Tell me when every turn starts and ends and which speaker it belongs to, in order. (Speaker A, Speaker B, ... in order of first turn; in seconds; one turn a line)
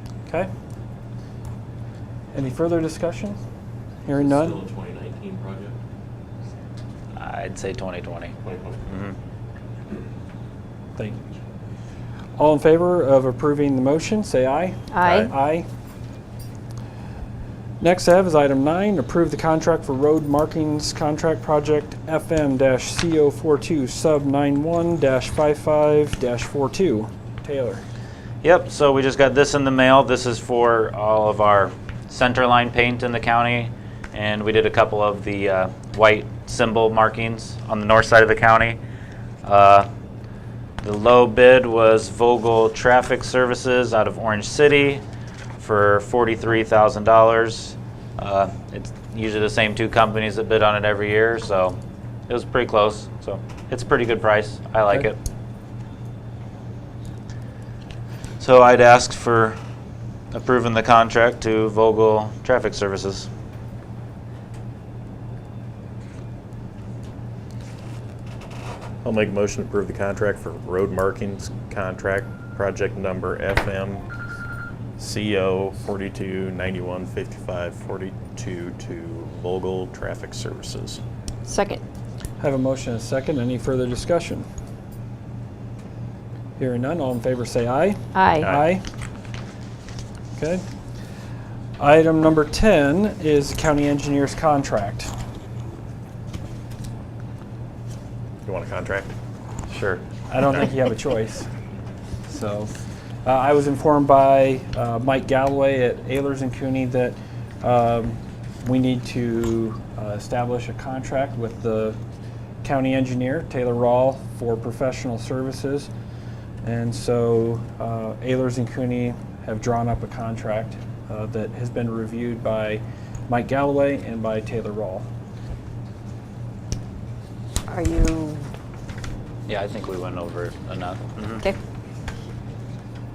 Speaker A: 2.3-3.4
Speaker A: 4.0-4.6
Speaker B: 4.1-5.8
Speaker C: 7.1-8.3
Speaker B: 8.4-8.8
Speaker C: 8.9-9.1
Speaker A: 12.3-15.7
Speaker D: 14.9-15.3
Speaker A: 17.8-27.8
Speaker C: 28.4-38.8
Speaker C: 39.4-39.9
Speaker C: 40.8-45.0
Speaker C: 45.6-51.8
Speaker C: 52.3-55.2
Speaker C: 58.4-59.6
Speaker C: 60.3-63.3
Speaker E: 69.0-74.0
Speaker E: 75.0-81.0
Speaker D: 81.5-81.8
Speaker A: 82.4-84.5
Speaker A: 86.6-88.8
Speaker D: 88.1-88.5
Speaker E: 88.4-88.7
Speaker A: 90.4-90.6
Speaker A: 91.8-95.1
Speaker E: 98.4-99.1
Speaker E: 99.7-100.0
Speaker A: 100.3-101.5
Speaker A: 102.2-102.7
Speaker A: 103.2-112.0
Speaker A: 112.6-115.9
Speaker A: 116.6-125.1
Speaker D: 127.7-128.4
Speaker C: 129.5-131.4